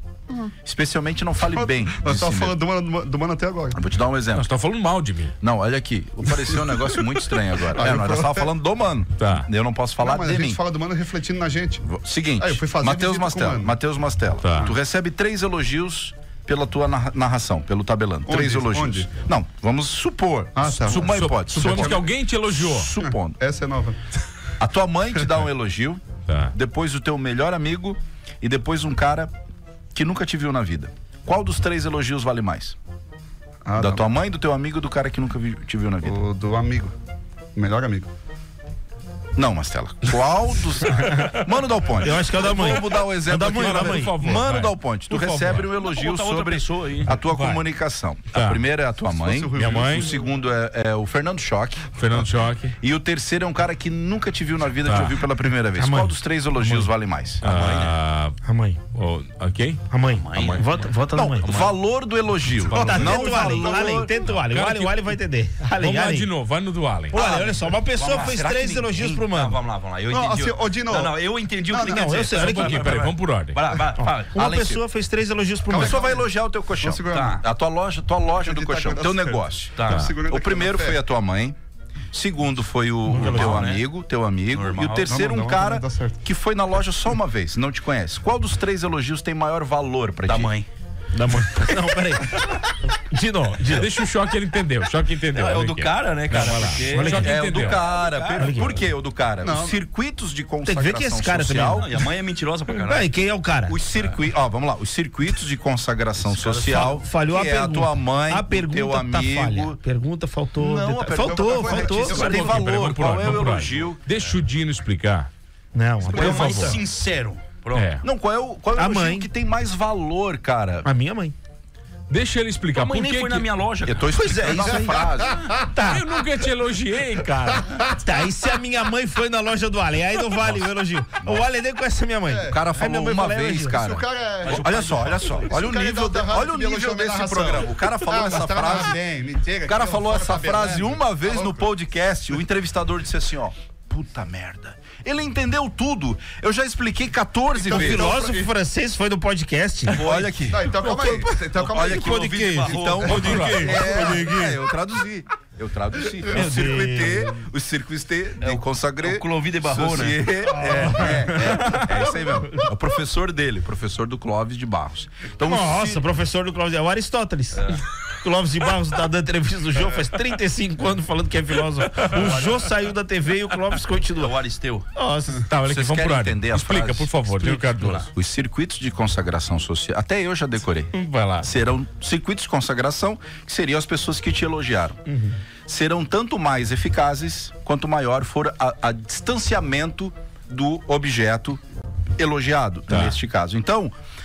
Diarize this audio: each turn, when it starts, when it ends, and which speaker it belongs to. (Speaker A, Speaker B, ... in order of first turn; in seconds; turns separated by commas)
Speaker A: 0.6-2.6, Speaker B: 1.5-3.8, Speaker A: 3.7-4.5, Speaker C: 4.3-5.3, Speaker A: 5.4-10.6, Speaker B: 7.7-8.5, Speaker C: 9.2-9.5, Speaker B: 10.0-11.9, Speaker A: 11.8-23.4, Speaker B: 12.4-13.8, Speaker C: 14.4-14.7, Speaker B: 18.3-19.2, Speaker B: 20.5-22.1, Speaker C: 20.8-22.9, Speaker B: 23.0-24.0, Speaker A: 24.6-26.0, Speaker C: 26.3-26.5, Speaker A: 26.5-29.3, Speaker A: 29.9-32.8, Speaker B: 33.6-34.0, Speaker A: 33.8-36.2, Speaker B: 36.0-36.9, Speaker B: 37.5-38.1, Speaker A: 39.4-57.4, Speaker D: 42.0-44.2, Speaker C: 43.3-45.7, Speaker E: 45.8-47.1, Speaker C: 47.2-47.6, Speaker C: 48.3-48.6, Speaker B: 49.0-50.2, Speaker C: 49.5-50.1, Speaker C: 52.0-52.8, Speaker C: 54.9-55.2, Speaker D: 55.8-56.1, Speaker E: 57.4-58.0, Speaker C: 57.4-58.4, Speaker D: 58.4-58.9, Speaker C: 58.9-59.8, Speaker D: 59.9-61.5, Speaker E: 60.0-60.9, Speaker A: 61.1-64.2, Speaker C: 61.4-61.7, Speaker E: 62.6-63.2, Speaker D: 62.7-66.3, Speaker B: 62.9-63.7, Speaker C: 63.9-65.2, Speaker C: 65.8-67.2, Speaker D: 67.1-69.6, Speaker E: 67.1-74.4, Speaker B: 70.1-72.2, Speaker D: 71.7-72.9, Speaker C: 72.3-73.6, Speaker D: 74.0-76.0, Speaker A: 74.3-74.8, Speaker B: 75.7-76.3, Speaker A: 75.7-81.6, Speaker B: 76.8-77.4, Speaker E: 77.1-77.4, Speaker B: 78.4-81.0, Speaker E: 79.8-80.1, Speaker A: 82.1-90.5, Speaker D: 83.1-83.5, Speaker E: 83.1-83.8, Speaker E: 84.5-85.2, Speaker B: 85.1-86.2, Speaker E: 90.3-90.7, Speaker D: 91.1-93.9, Speaker C: 93.7-97.8, Speaker E: 95.3-98.8, Speaker A: 96.6-101.9, Speaker D: 96.8-97.2, Speaker D: 98.3-98.8, Speaker B: 99.4-99.8, Speaker D: 100.6-101.9, Speaker E: 101.7-103.1, Speaker D: 102.8-103.8, Speaker A: 103.7-109.8, Speaker E: 106.2-107.0, Speaker D: 106.9-112.3, Speaker A: 110.6-114.0, Speaker B: 111.2-112.6, Speaker C: 112.1-115.3, Speaker D: 115.7-116.8, Speaker E: 116.0-117.9, Speaker B: 116.1-116.5, Speaker C: 116.1-116.8, Speaker C: 117.7-118.0, Speaker A: 118.0-120.9, Speaker D: 118.8-119.3, Speaker D: 120.8-121.3, Speaker C: 122.1-123.5, Speaker E: 122.7-125.5, Speaker A: 123.8-125.4, Speaker B: 124.5-125.6, Speaker D: 125.7-126.1, Speaker C: 125.8-127.7, Speaker D: 127.3-133.8, Speaker A: 131.2-131.5, Speaker B: 132.3-132.7, Speaker A: 132.5-139.0, Speaker B: 133.7-141.7, Speaker E: 134.5-135.3, Speaker A: 139.7-148.1, Speaker B: 147.5-148.5, Speaker D: 147.7-150.0, Speaker E: 149.9-153.8, Speaker A: 150.0-166.0, Speaker B: 150.5-154.3, Speaker C: 153.0-154.6, Speaker B: 156.2-156.6, Speaker D: 156.3-157.4, Speaker E: 158.4-160.3, Speaker D: 160.5-162.6, Speaker D: 165.4-174.3, Speaker E: 167.5-167.8, Speaker E: 172.0-172.6, Speaker E: 174.1-174.9, Speaker D: 174.9-175.5, Speaker C: 175.5-178.1, Speaker A: 175.7-177.3, Speaker E: 177.5-178.1, Speaker A: 178.1-185.0, Speaker C: 180.9-181.5, Speaker D: 185.1-185.4, Speaker A: 185.7-191.6, Speaker A: 192.2-193.9, Speaker C: 192.9-193.2